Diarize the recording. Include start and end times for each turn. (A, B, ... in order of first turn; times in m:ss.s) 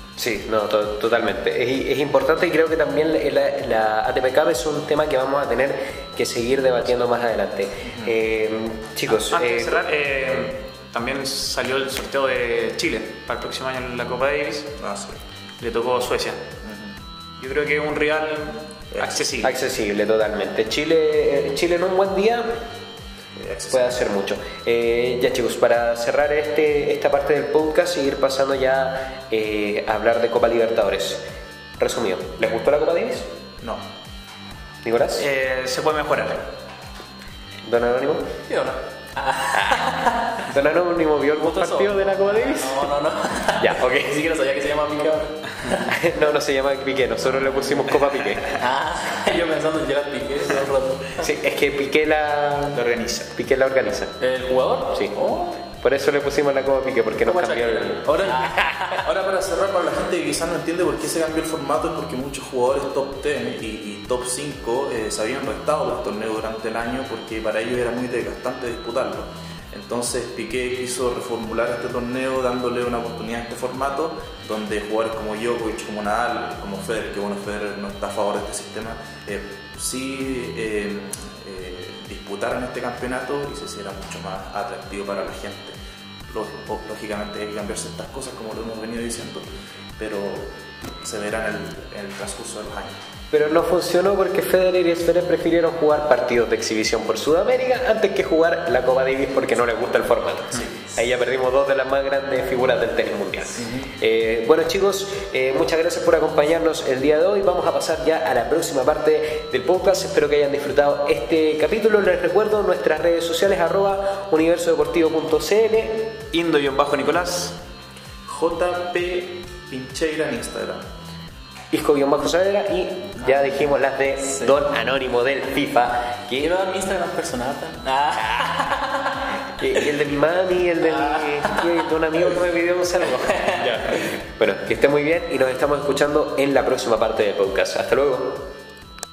0:00.2-0:09.8 A
0:07.8-0:08.1 B
0:09.1-0:14.8 C
0:14.8-0:15.2 B
0:15.6-0:16.4 C
0:16.6-0:17.0 B
0:17.4-0:19.5 C
0:18.9-0:19.4 B
0:19.4-0:22.6 A
0:23.4-0:24.1 B
0:23.7-0:31.2 A
0:31.8-0:33.3 A
0:33.6-0:33.9 B
0:34.8-0:35.2 A
0:35.2-0:36.5 C
0:37.6-0:38.3 A
0:38.5-0:40.4 D
0:39.6-0:39.8 A
0:40.4-0:42.9 A
0:41.3-0:45.9 D
0:43.6-0:44.2 A
0:45.8-0:48.6 A
0:48.6-0:51.2 D
0:51.2-0:54.2 A
0:52.7-0:53.3 C
0:54.2-0:55.6 D
0:55.7-0:58.8 A
0:57.2-0:59.0 D
0:59.0-1:25.7 B
1:26.3-1:32.9 B
1:33.3-1:56.2 A
1:56.3-1:57.6 C
1:58.2-2:00.9 B
2:01.7-2:06.5 A
2:06.4-2:09.2 D
2:09.5-2:18.5 A
2:10.8-2:11.7 D
2:13.1-2:13.7 D